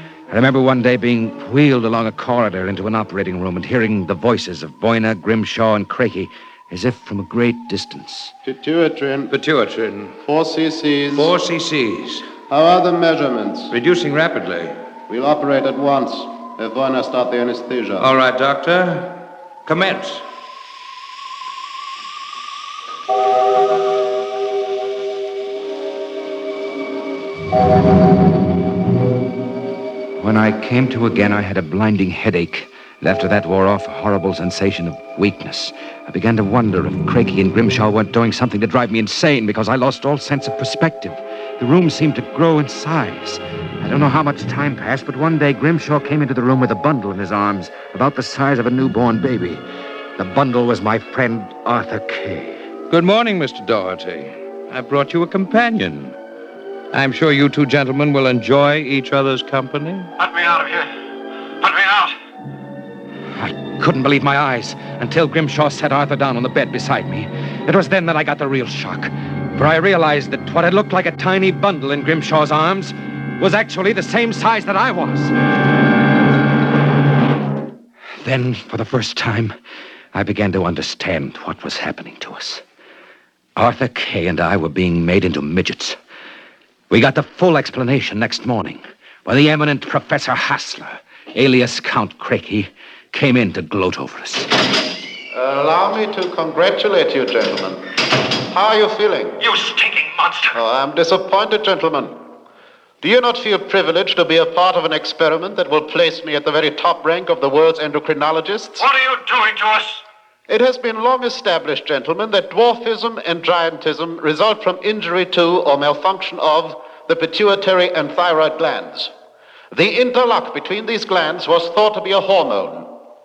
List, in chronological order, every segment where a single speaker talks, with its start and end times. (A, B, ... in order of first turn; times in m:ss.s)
0:00.3-0:08.3 A
0:08.4-0:09.3 B
0:09.3-0:10.2 C
0:10.2-0:11.3 B
0:11.1-0:12.3 C
0:12.5-0:13.7 B
0:13.7-0:14.8 C
0:15.1-0:18.1 B
0:18.0-0:20.3 C
0:30.2-0:49.6 A
0:50.2-0:52.6 A
0:52.9-0:56.2 C
0:56.9-1:00.1 C
1:00.2-1:00.9 D
1:01.6-1:02.2 D
1:03.4-1:15.4 A
1:18.2-1:19.6 A
1:20.1-1:22.6 A
1:23.6-1:26.0 A
1:26.9-1:34.5 A
1:35.3-1:37.9 B
1:38.5-1:39.4 B
1:40.5-1:42.2 B
1:43.0-1:48.8 B
1:48.8-1:50.0 D
1:50.5-1:59.1 B
1:59.7-2:02.9 B